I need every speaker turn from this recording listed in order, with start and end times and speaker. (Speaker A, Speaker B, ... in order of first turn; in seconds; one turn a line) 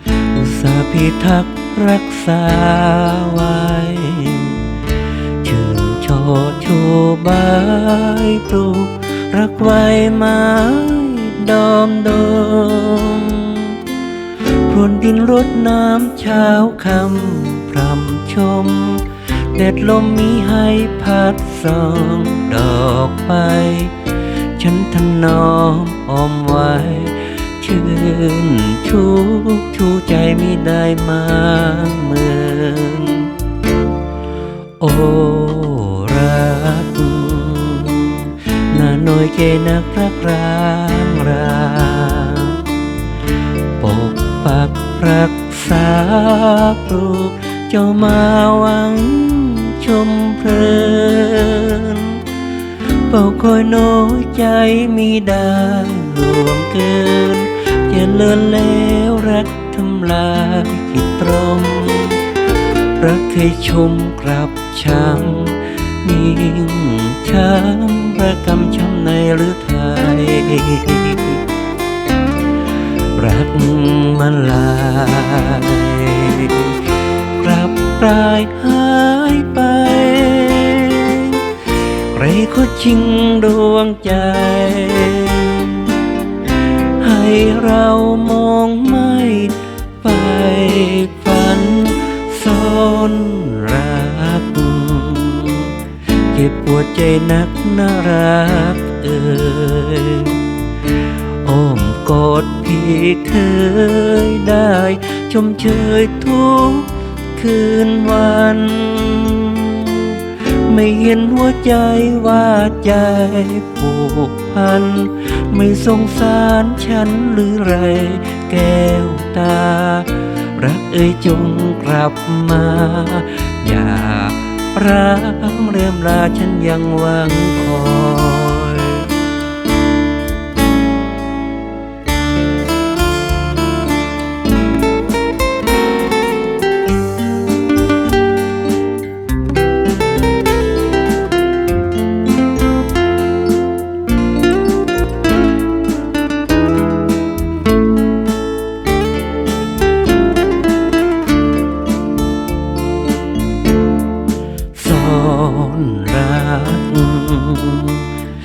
Speaker A: 0.3-4.8
Speaker A: 5.4-13.9
Speaker A: 14.4-33.4
Speaker A: 34.8-42.7
Speaker A: 43.8-52.2
Speaker A: 52.8-71.4
Speaker A: 73.0-86.0
Speaker A: 86.6-100.5
Speaker A: 101.3-129.2
Speaker A: 154.7-158.2